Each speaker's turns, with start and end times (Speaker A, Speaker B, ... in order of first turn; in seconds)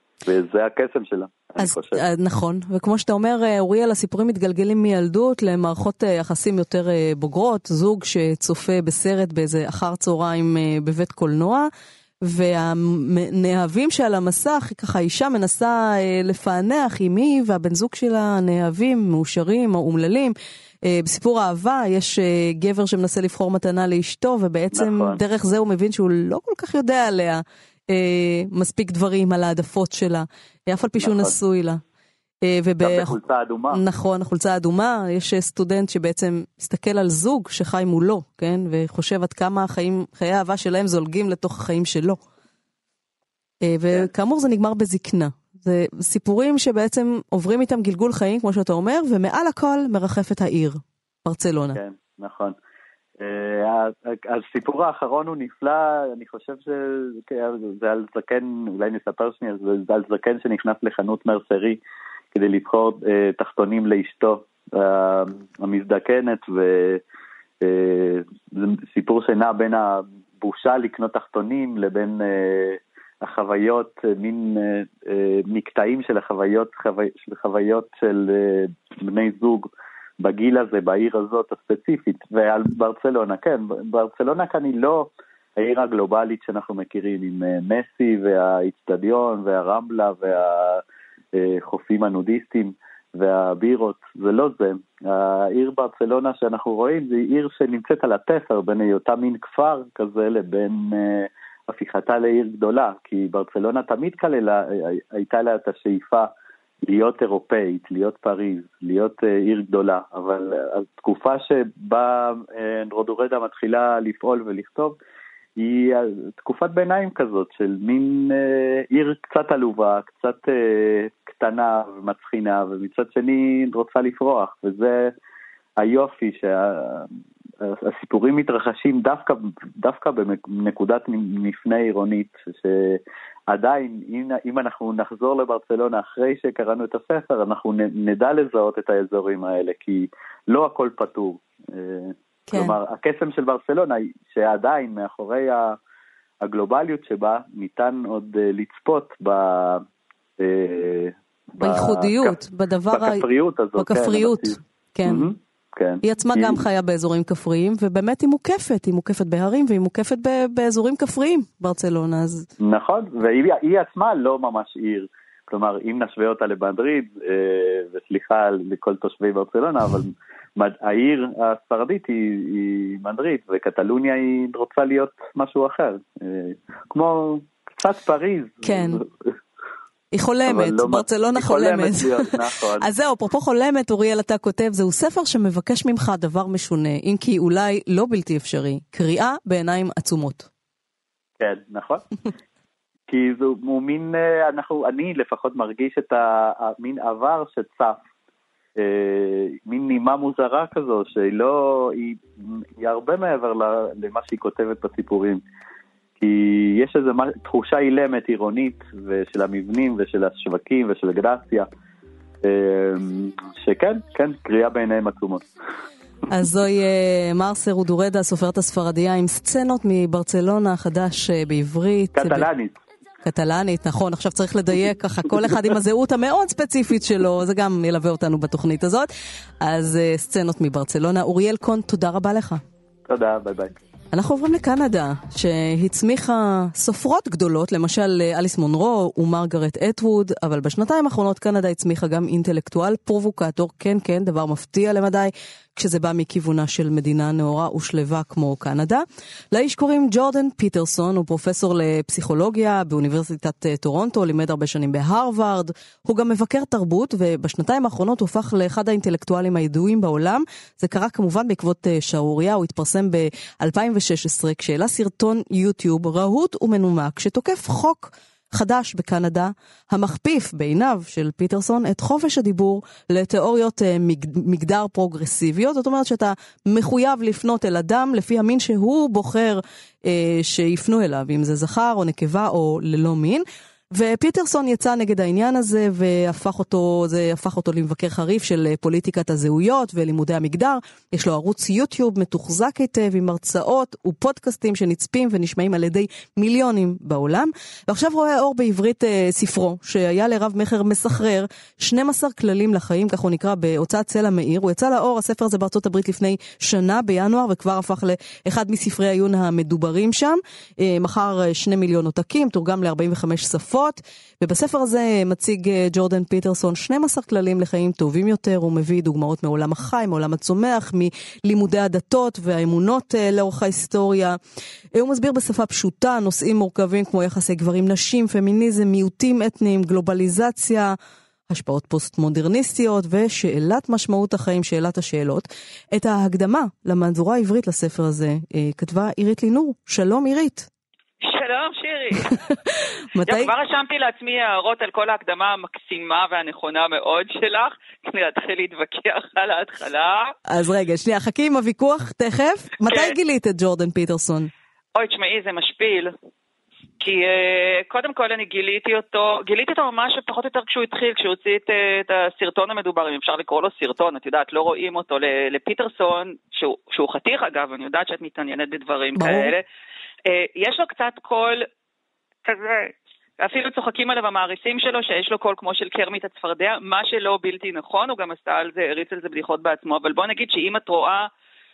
Speaker A: 0.2-2.0, 24.7-25.2, 31.0-31.4, 32.8-33.8, 51.7-52.5, 53.2-61.8, 62.3-67.0, 67.6-90.8, 91.3-106.3, 106.8-115.0, 115.6-125.1, 125.8-127.1, 127.6-145.8, 146.4-149.8, 150.4-152.3, 152.9-156.6, 162.6-179.1, 180.4-182.9, 191.4-192.0, 193.1-198.0, 198.8-205.4, 206.2-211.7, 212.4-215.4, 222.1-222.8, 233.1-233.7
Speaker B: 1.6-11.7, 12.2-31.8, 32.4-33.1, 33.7-42.2, 43.6-51.8, 142.5-142.7, 151.6-155.3, 156.0-162.5, 178.6-179.0, 180.1-190.5, 216.3-222.5, 223.2-229.1, 229.6-232.6, 234.1-324.4, 324.9-330.9, 331.5-340.7, 343.1-343.5, 350.5-354.5, 369.2-369.5
Speaker C: 341.2-342.3, 343.2-350.3, 352.9-353.1, 354.9-356.1, 357.0-369.6, 370.2-371.6, 372.4-381.3